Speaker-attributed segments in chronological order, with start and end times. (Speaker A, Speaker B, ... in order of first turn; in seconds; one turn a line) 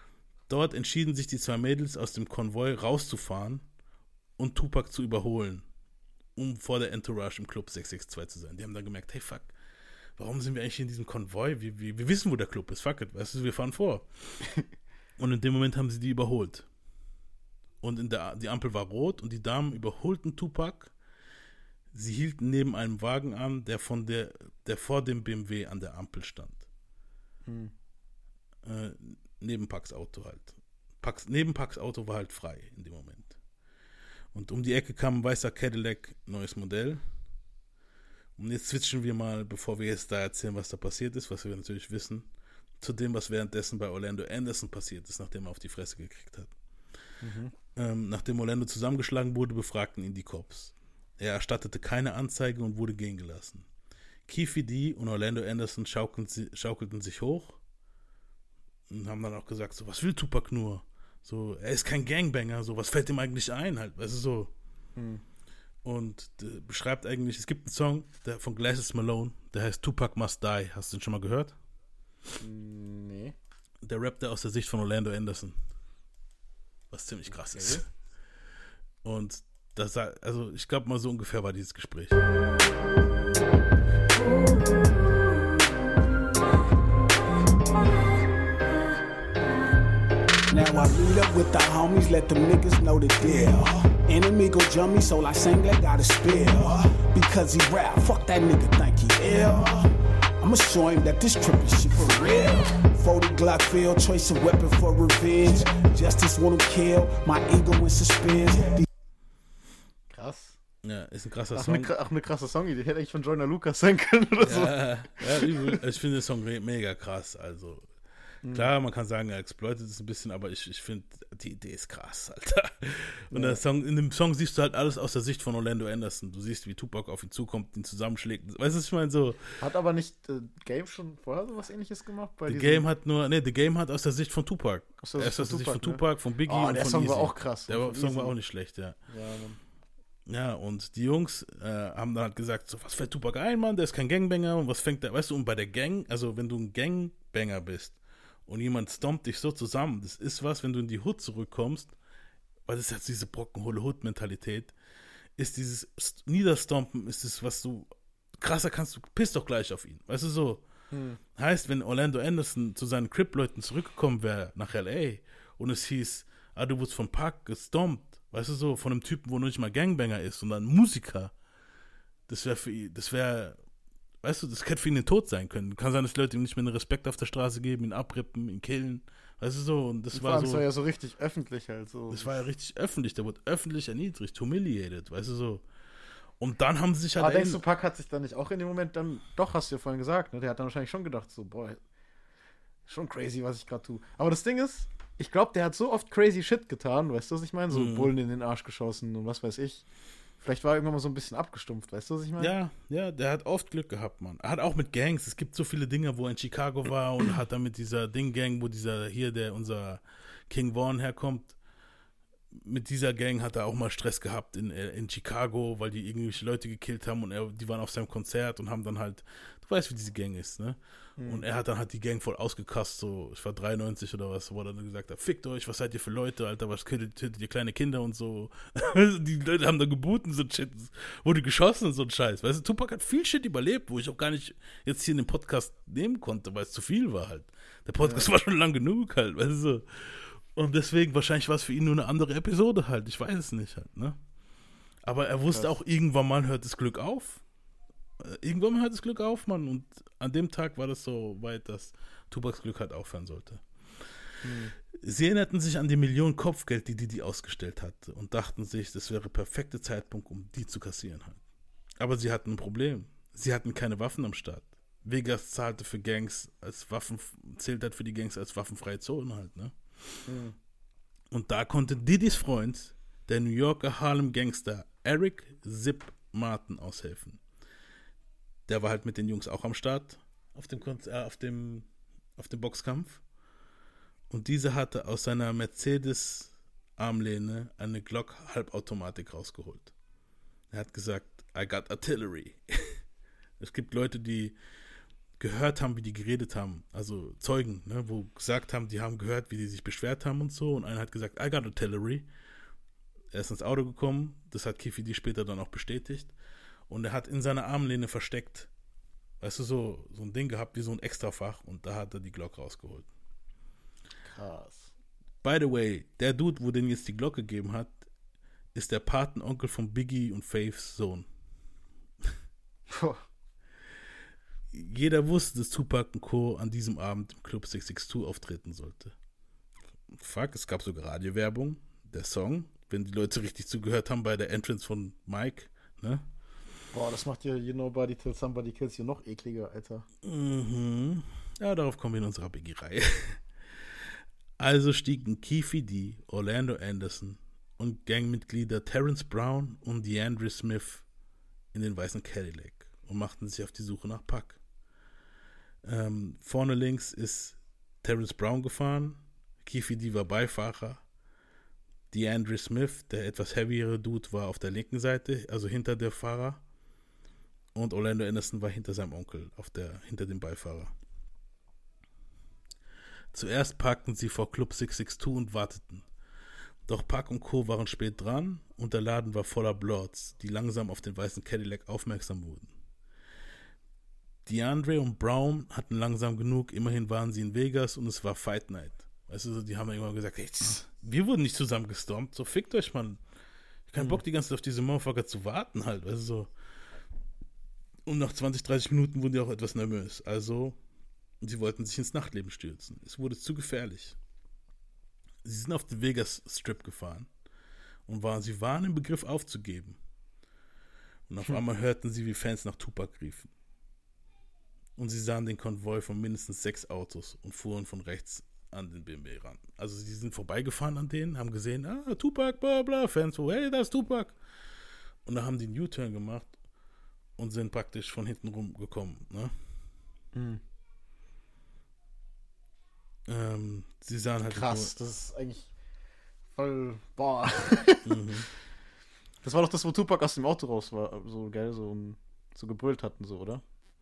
Speaker A: 0.5-3.6
Speaker A: 4.4-5.6
Speaker A: 6.4-9.5
Speaker A: 10.2-14.1
Speaker A: 15.2-16.6
Speaker A: 17.8-20.9
Speaker A: 21.9-26.6
Speaker B: 27.5-27.7
Speaker A: 28.7-33.4
Speaker A: 34.3-37.0
Speaker A: 38.4-42.3
Speaker A: 42.8-46.5
Speaker B: 47.2-47.5
Speaker A: 47.8-53.7
Speaker A: 54.3-57.6
Speaker A: 58.9-64.5
Speaker B: 65.0-65.2
Speaker A: 65.8-71.5
Speaker B: 72.4-73.3
Speaker A: 73.8-75.6
Speaker A: 76.9-77.8
Speaker B: 77.5-77.8
Speaker A: 79.0-82.2
Speaker C: 90.5-108.8
Speaker B: 110.1-110.6
Speaker A: 110.8-111.9
Speaker B: 111.5-114.8
Speaker A: 114.4-117.9
Speaker B: 115.3-115.7
Speaker B: 118.4-118.7
Speaker A: 118.5-129.5
Speaker B: 123.3-123.6
Speaker B: 129.6-132.8
Speaker A: 132.5-139.0
Speaker B: 135.0-138.4
Speaker B: 139.1-139.6
Speaker A: 140.3-151.9
Speaker A: 152.7-154.7
Speaker A: 155.4-160.6
Speaker B: 160.9-161.2
Speaker A: 161.3-171.3
Speaker A: 172.3-173.6
Speaker A: 174.2-180.6
Speaker B: 180.1-182.4
Speaker A: 182.1-185.6
Speaker A: 186.4-187.6
Speaker B: 187.2-191.8
Speaker B: 192.9-199.9
Speaker A: 197.7-198.1
Speaker B: 200.4-202.6
Speaker A: 202.4-211.6
Speaker A: 212.6-244.2
Speaker B: 221.2-221.4
Speaker B: 238.0-238.3
Speaker A: 245.1-247.4
Speaker B: 245.5-245.8
Speaker A: 248.2-253.6
Speaker B: 254.4-254.7
Speaker A: 255.0-261.4
Speaker A: 262.0-269.7
Speaker B: 270.3-270.6
Speaker A: 271.3-277.4
Speaker A: 278.7-281.9
Speaker A: 282.4-283.2
Speaker A: 284.3-289.9
Speaker A: 290.7-292.6
Speaker A: 293.6-294.6
Speaker A: 295.4-302.3
Speaker A: 303.3-306.3
Speaker A: 306.9-308.7
Speaker A: 309.4-313.1
Speaker B: 314.2-314.9
Speaker A: 315.4-318.0
Speaker A: 318.8-321.3
Speaker B: 322.9-323.2
Speaker A: 324.7-329.1
Speaker A: 330.1-336.2
Speaker B: 336.9-340.1
Speaker A: 340.2-343.4
Speaker A: 344.6-351.0
Speaker A: 351.7-354.6
Speaker A: 355.9-361.0
Speaker A: 362.1-366.6
Speaker A: 367.8-370.9
Speaker A: 373.3-376.0
Speaker A: 376.9-382.7
Speaker A: 384.5-393.2
Speaker A: 393.9-396.5
Speaker A: 398.1-400.8
Speaker A: 401.4-404.2
Speaker A: 405.4-407.3
Speaker A: 408.1-410.0
Speaker A: 411.3-413.5
Speaker A: 415.0-424.4
Speaker A: 425.3-426.5
Speaker A: 427.4-429.5
Speaker B: 430.3-430.6
Speaker A: 433.3-434.9
Speaker B: 434.5-435.7
Speaker B: 436.6-438.1
Speaker A: 438.1-438.5
Speaker B: 439.4-443.6